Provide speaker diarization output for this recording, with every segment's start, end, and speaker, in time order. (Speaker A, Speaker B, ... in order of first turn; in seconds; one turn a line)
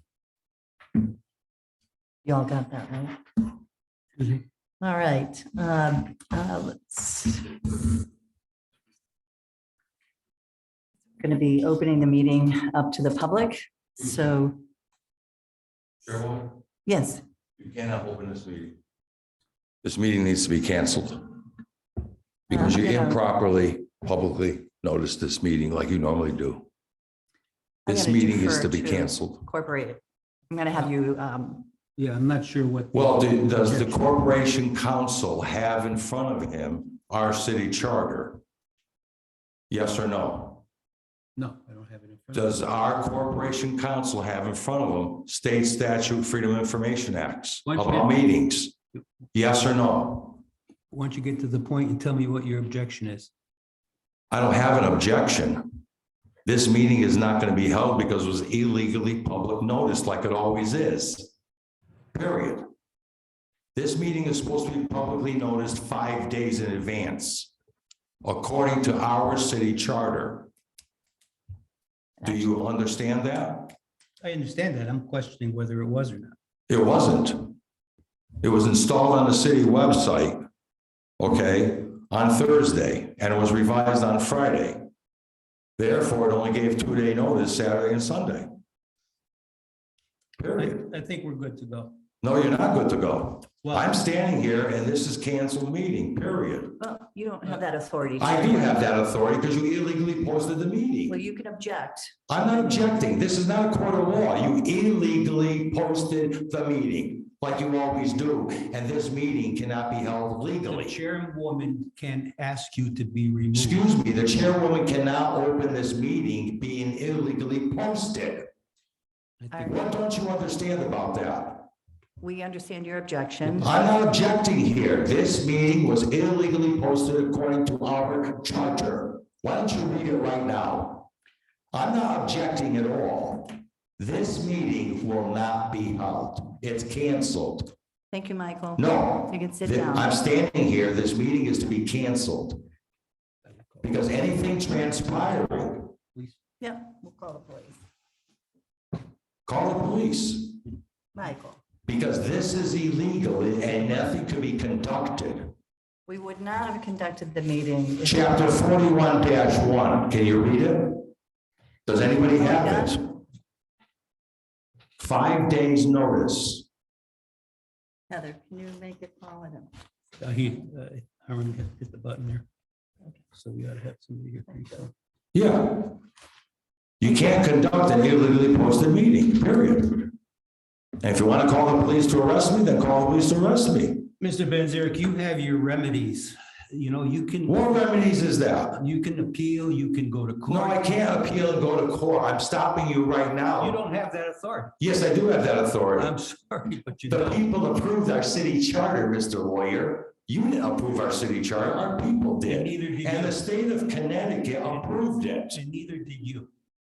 Speaker A: 2.2-3.2
Speaker A: 4.8-8.0
Speaker A: 11.2-14.6
Speaker B: 16.0-16.6
Speaker A: 16.9-17.2
Speaker B: 17.6-18.8
Speaker B: 19.8-21.5
Speaker B: 22.5-26.7
Speaker A: 22.5-23.2
Speaker A: 27.9-31.7
Speaker B: 27.9-29.4
Speaker C: 32.0-34.0
Speaker B: 32.9-38.4
Speaker B: 39.7-40.6
Speaker C: 41.4-42.5
Speaker B: 42.3-48.8
Speaker C: 47.6-48.1
Speaker B: 49.3-50.4
Speaker C: 50.9-53.3
Speaker B: 54.3-55.8
Speaker B: 56.5-61.3
Speaker B: 62.1-62.6
Speaker B: 63.8-67.5
Speaker B: 68.2-70.5
Speaker A: 72.2-72.5
Speaker B: 72.2-73.7
Speaker C: 74.2-76.3
Speaker B: 76.7-77.6
Speaker B: 78.4-80.4
Speaker B: 81.2-84.9
Speaker B: 85.8-88.6
Speaker B: 90.4-90.8
Speaker C: 90.6-92.0
Speaker B: 92.2-96.8
Speaker C: 93.6-93.9
Speaker A: 96.8-98.9
Speaker B: 98.2-101.2
Speaker A: 101.1-102.2
Speaker B: 102.3-111.0
Speaker C: 110.6-113.9
Speaker B: 113.5-118.5
Speaker C: 119.4-119.7
Speaker A: 119.5-119.8
Speaker B: 119.6-121.7
Speaker A: 122.2-123.7
Speaker B: 123.6-131.1
Speaker B: 131.7-137.7
Speaker A: 138.1-140.1
Speaker B: 138.8-142.6
Speaker C: 143.5-144.0
Speaker B: 143.8-145.9
Speaker A: 146.6-147.7
Speaker B: 149.5-150.6
Speaker A: 151.2-151.6
Speaker B: 151.9-155.5
Speaker A: 156.1-158.4
Speaker B: 158.0-161.1
Speaker B: 161.9-163.1
Speaker A: 162.3-163.0
Speaker B: 165.0-166.7
Speaker A: 168.1-169.7
Speaker C: 170.2-172.5
Speaker C: 173.3-174.9
Speaker B: 175.3-176.0
Speaker B: 177.0-180.2
Speaker B: 181.0-184.1
Speaker C: 184.2-187.7
Speaker B: 187.5-188.8
Speaker C: 188.8-190.9
Speaker B: 190.5-193.8
Speaker C: 193.6-194.7
Speaker B: 194.8-196.1
Speaker C: 196.0-197.4
Speaker B: 197.1-205.6
Speaker C: 202.5-203.4
Speaker C: 205.5-206.5